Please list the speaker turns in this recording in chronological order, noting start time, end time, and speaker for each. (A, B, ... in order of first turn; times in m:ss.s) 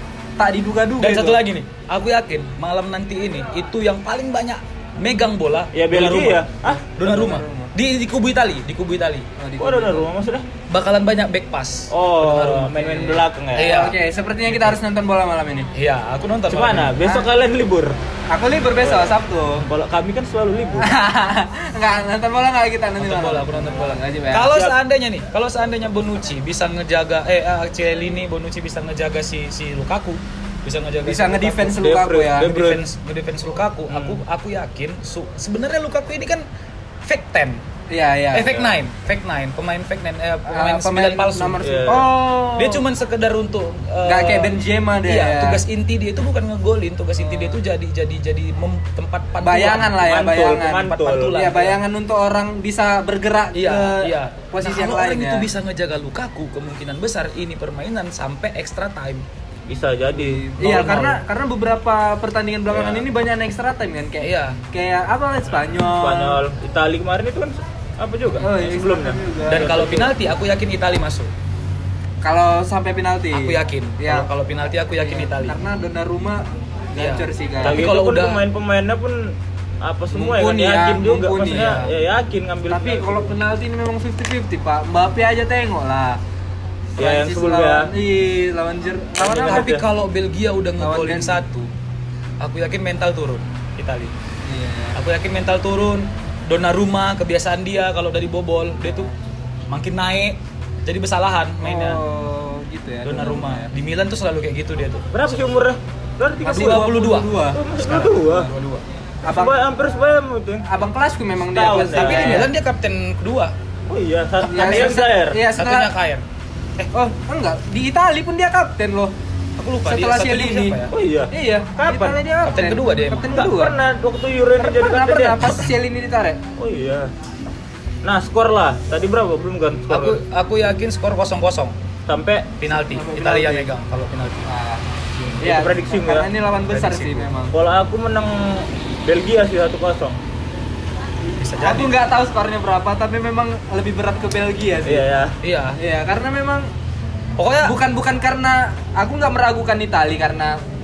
0:00.4-0:01.4 A
0:01.0-0:09.3 B
0:05.7-0:06.8 C
0:07.0-0:07.7 A
0:09.4-0:10.1 A
0:09.6-0:10.4 C
0:10.7-0:14.8 B
0:11.9-0:13.8 C
0:13.0-0:15.7 A
0:15.7-0:17.0 B
0:16.5-0:18.0 C
0:17.0-0:17.2 A
0:18.3-0:19.6 A
0:18.8-0:20.9 C
0:20.8-0:24.5 A
0:23.0-0:36.4 B
0:24.5-0:24.7 C
0:31.0-0:32.5 A
0:31.8-0:32.8 C
0:33.9-0:34.2 C
0:37.0-0:37.6 B
0:37.9-0:38.6 A
0:38.3-0:42.0 B
0:40.5-0:42.8 A
0:41.6-0:42.1 C
0:42.5-0:50.0 B
0:44.0-0:45.6 A
0:47.2-0:47.6 A
0:49.4-0:55.5 A
0:50.0-0:51.3 C
0:50.7-0:51.8 B
0:53.5-0:59.2 B
0:59.7-1:00.4 C
1:00.1-1:06.4 A
1:00.6-1:01.2 B
1:02.7-1:03.0 C
1:04.2-1:04.6 B
1:05.8-1:10.1 C
1:08.4-1:09.9 A
1:09.5-1:11.3 B
1:12.2-1:14.3 A
1:13.3-1:15.6 B
1:15.0-1:17.8 A
1:17.0-1:18.4 B
1:17.6-1:23.4 C
1:20.1-1:21.8 A
1:21.5-1:21.9 B
1:22.7-1:26.2 A
1:27.0-1:27.9 C
1:27.0-1:29.7 A
1:29.2-1:29.8 C
1:29.4-1:31.7 B
1:30.8-1:31.4 A
1:32.4-1:34.1 B
1:34.4-1:35.0 A
1:35.0-1:39.1 B
1:39.7-1:42.0 B
1:41.6-1:43.7 A
1:43.0-1:45.2 B
1:45.1-1:46.9 C
1:46.4-1:47.6 A
1:46.4-1:48.8 B
1:47.5-1:48.5 C
1:49.2-1:49.6 A
1:49.2-1:50.6 C
1:50.6-1:52.5 A
1:51.4-1:52.5 C
1:52.0-1:53.5 B
1:53.9-1:55.4 C
1:54.4-1:55.0 B
1:54.5-1:55.9 A
1:55.5-1:56.2 B
1:56.9-1:59.1 A
1:59.6-2:00.9 B
1:59.8-2:00.8 A
2:00.9-2:02.2 C
2:01.3-2:03.8 A
2:02.4-2:03.4 B
2:03.3-2:05.5 C
2:04.6-2:06.4 A
2:06.6-2:07.1 C
2:08.0-2:10.2 C
2:09.9-2:11.7 B
2:12.0-2:12.5 C
2:12.6-2:14.5 B
2:12.7-2:13.7 A
2:14.4-2:14.9 A
2:15.4-2:17.5 A
2:15.4-2:16.3 C
2:16.7-2:17.3 B
2:17.5-2:20.2 C
2:21.4-2:22.0 B
2:21.6-2:25.0 A
2:24.8-2:25.3 C
2:25.4-2:25.8 B
2:25.8-2:26.7 A
2:27.4-2:27.8 B
2:27.6-2:30.6 A